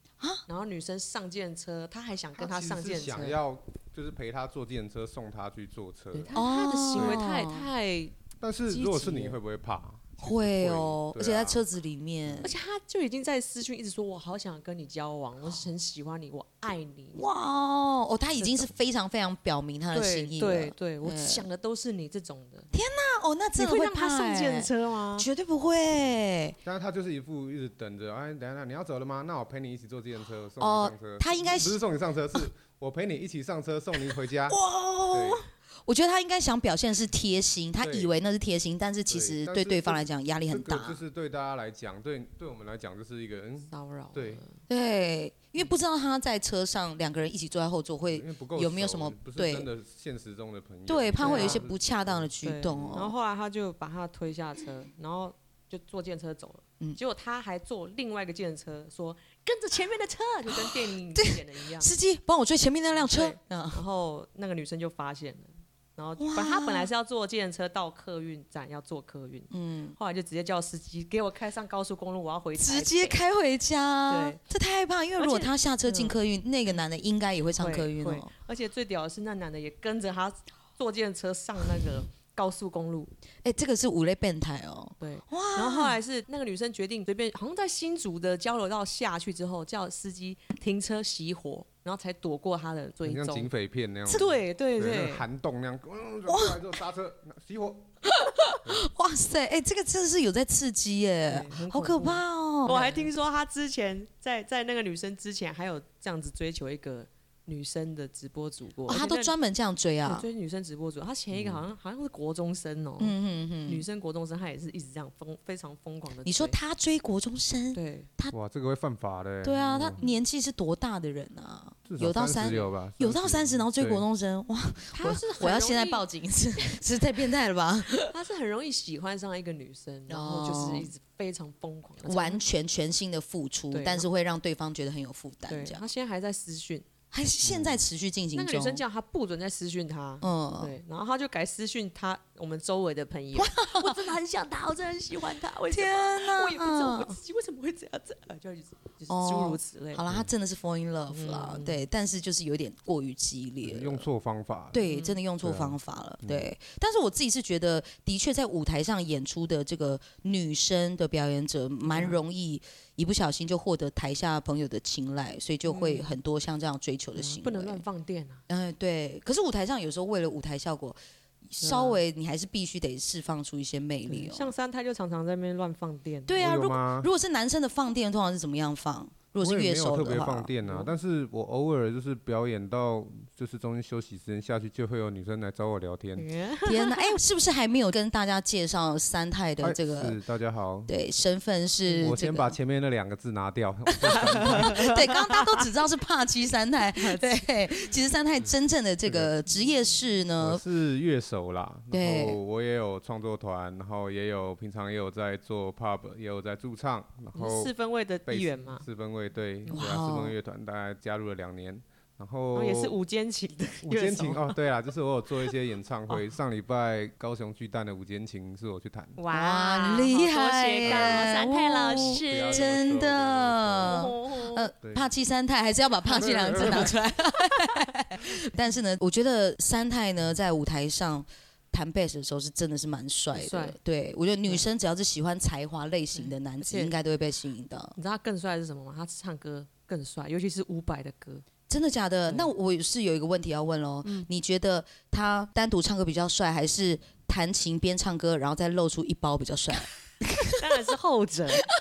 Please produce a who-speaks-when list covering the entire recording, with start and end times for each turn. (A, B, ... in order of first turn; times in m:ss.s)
0:00.4-0:03.4 A
0:02.4-0:06.4 B
0:06.1-0:08.1 A
0:06.3-0:07.6 C
0:06.9-0:07.2 B
0:08.4-0:11.6 B
0:08.7-0:09.4 A
0:10.2-0:12.5 C
0:12.2-0:12.5 B
0:12.4-0:17.2 A
0:17.1-0:21.5 C
0:18.4-0:18.6 A
0:19.9-0:22.7 A
0:22.7-0:26.6 C
0:23.6-0:25.3 A
0:26.6-0:34.6 B
0:30.6-0:31.8 C
0:34.5-0:41.0 C
0:35.1-0:35.4 B
0:37.8-0:38.1 B
0:39.1-0:44.4 B
0:43.7-0:44.6 A
0:44.7-0:49.7 C
0:48.1-0:53.0 B
0:50.9-0:53.1 C
0:51.2-0:51.6 A
0:52.4-1:01.9 A
1:00.5-1:03.8 C
1:02.9-1:13.2 A
1:06.2-1:06.9 C
1:09.5-1:10.0 C
1:12.6-1:18.3 C
1:14.1-1:14.4 A
1:15.2-1:16.1 A
1:17.6-1:23.1 A
1:23.4-1:26.0 C
1:25.0-1:33.5 A
1:33.0-1:37.9 B
1:34.0-1:35.2 A
1:36.3-1:36.6 C
1:38.0-1:43.1 C
1:38.6-1:38.9 B
1:41.3-1:49.3 A
1:48.9-1:50.2 C
1:50.0-1:53.1 A
1:51.3-1:51.6 B
1:53.0-1:53.8 C
1:53.6-1:56.6 A
1:56.2-1:58.3 C
1:57.7-1:58.1 A
1:58.3-2:00.0 B
1:59.4-2:08.1 C
2:01.9-2:04.0 B
2:04.9-2:06.0 A
2:07.9-2:12.4 A
2:10.1-2:10.9 C
2:12.0-2:15.8 C
2:13.7-2:14.1 A
2:15.5-2:16.8 A
2:17.1-2:18.8 C
2:17.4-2:17.8 B
2:18.3-2:30.0 A
2:20.2-2:20.7 C
2:23.3-2:24.0 C
2:25.7-2:27.2 C
2:29.1-2:34.1 C
2:31.1-2:31.8 A
2:33.6-2:34.8 B
2:34.7-2:47.8 C
2:34.8-2:35.2 A
2:35.4-2:36.5 B
2:41.8-2:42.2 A
2:45.6-2:46.1 A
2:47.2-2:48.4 A
2:48.5-2:54.5 C
2:51.6-2:52.0 A
2:54.1-2:56.4 A
2:56.3-3:00.5 C
2:56.4-2:57.1 B
2:59.4-3:06.2 B
3:00.6-3:00.9 A
3:06.2-3:07.1 A
3:06.6-3:10.2 C
3:09.6-3:10.9 B
3:10.9-3:12.6 C
3:12.0-3:14.9 B
3:14.1-3:15.6 A
3:14.1-3:20.6 C
3:17.0-3:17.3 A
3:19.0-3:19.3 B
3:20.4-3:27.7 B
3:21.9-3:22.4 C
3:27.3-3:28.8 A
3:28.3-3:33.0 B
3:29.7-3:30.3 C
3:32.5-3:34.5 A
3:33.8-3:39.2 B
3:39.2-3:42.7 A
3:39.3-3:57.9 C
3:40.8-3:41.3 B
3:41.9-3:44.0 B
3:43.8-3:44.7 A
3:44.8-3:45.1 B
3:46.1-3:47.0 B
3:53.3-3:53.8 A
3:56.1-3:56.9 A
3:58.0-4:01.4 A
4:01.7-4:10.6 C
4:04.0-4:04.3 A
4:10.6-4:11.7 A